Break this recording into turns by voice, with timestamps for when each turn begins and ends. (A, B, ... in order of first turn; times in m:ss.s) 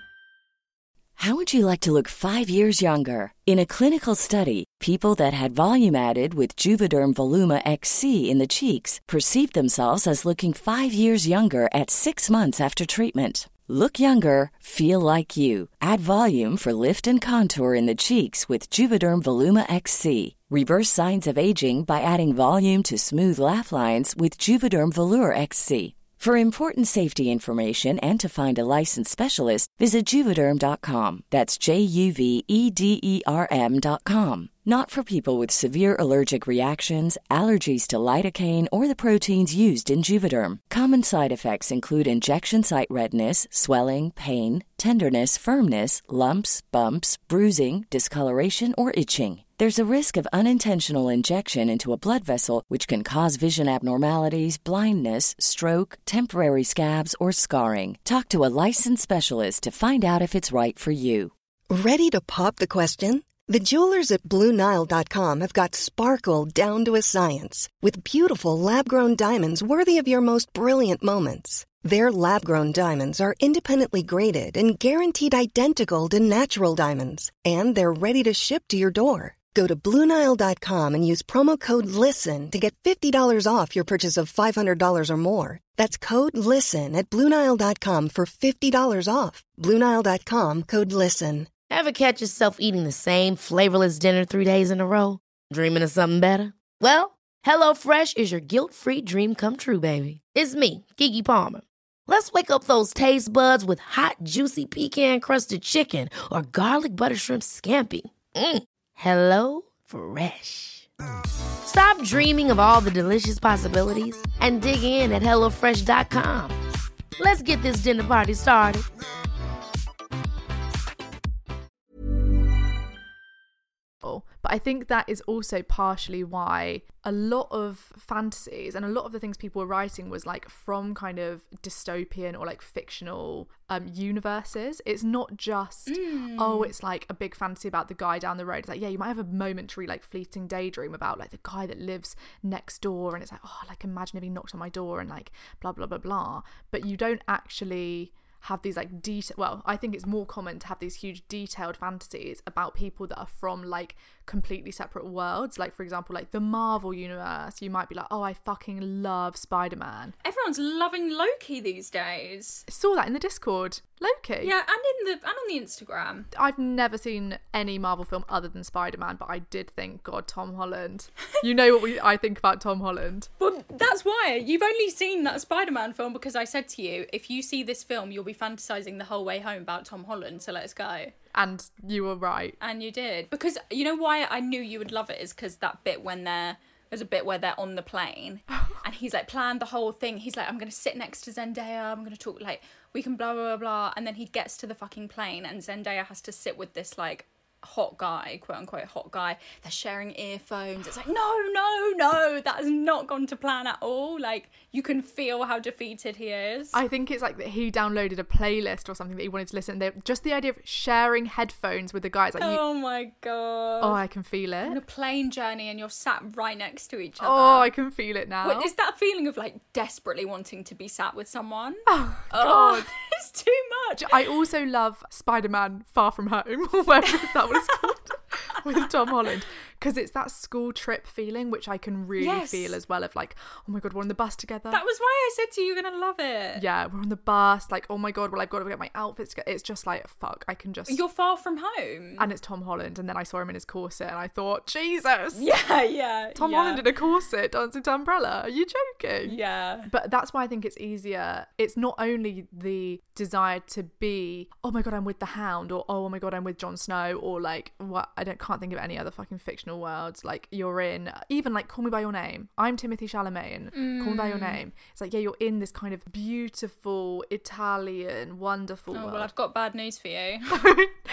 0:01.2-1:01.3 A
1:01.7-1:31.5 B
1:31.7-1:50.9 C
1:51.6-1:56.6 C
1:57.2-1:58.9 C
2:04.0-2:40.2 D
2:15.9-2:16.7 E
2:40.2-2:42.6 E
2:42.7-2:44.5 D
2:44.4-2:46.3 E
2:46.3-2:53.3 D
2:53.4-3:01.2 E
3:01.3-3:02.6 D
3:02.6-3:26.8 E
3:26.7-3:32.6 D
3:32.4-3:34.0 E
3:33.8-3:34.8 D
3:34.6-3:37.7 E
3:37.2-3:38.7 D
3:38.4-3:44.3 E
3:41.9-3:42.9 D
3:44.0-3:54.8 D
3:47.1-3:48.0 E
3:52.2-3:52.8 E
3:54.7-3:56.7 E
3:56.6-4:01.0 D
4:00.9-4:02.3 E
4:02.2-4:05.5 D
4:05.4-4:06.8 E
4:06.4-4:29.3 D
4:09.2-4:09.9 E
4:23.7-4:24.6 E
4:28.9-4:30.8 E
4:30.5-4:31.0 D